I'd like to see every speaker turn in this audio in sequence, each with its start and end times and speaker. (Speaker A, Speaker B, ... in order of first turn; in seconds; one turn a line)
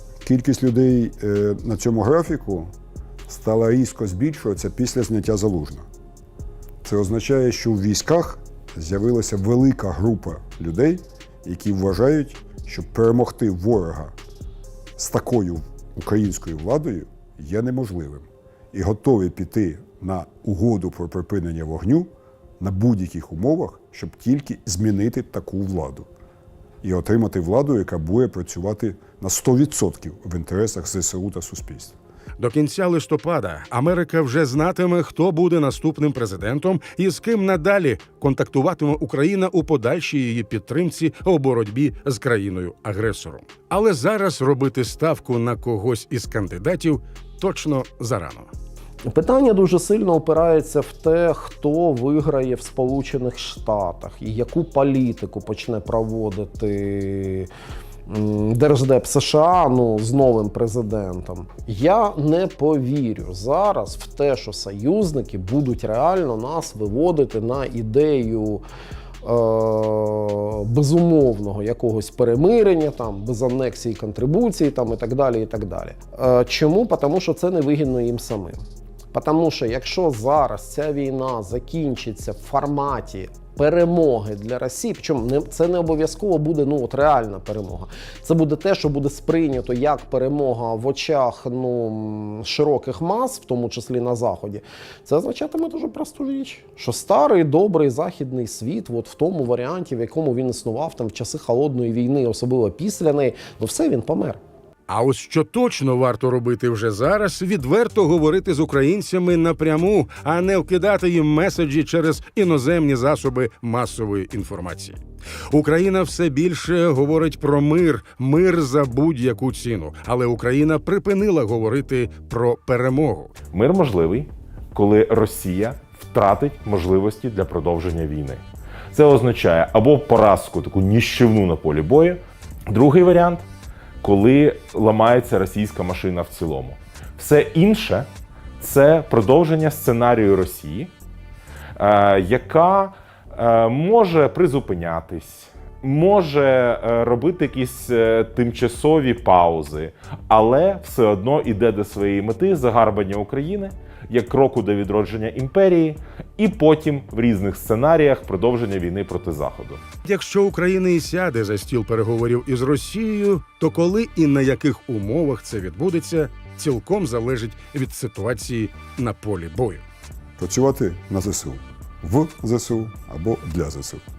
Speaker A: 0.2-2.7
Speaker A: 3.3-5.8
Speaker A: 6.8-14.1
Speaker A: 15.0-22.1
Speaker A: 22.6-26.1
Speaker A: 26.8-31.9
Speaker B: 32.4-48.5
Speaker C: 49.1-57.5
Speaker C: 58.1-68.6
Speaker C: 69.2-104.4
Speaker B: 104.9-115.0
Speaker B: 115.5-123.3
Speaker D: 123.5-133.4
Speaker D: 134.0-138.1
Speaker D: 138.6-140.9
Speaker D: 141.8-159.8
Speaker B: 160.0-169.8
Speaker A: 170.4-174.0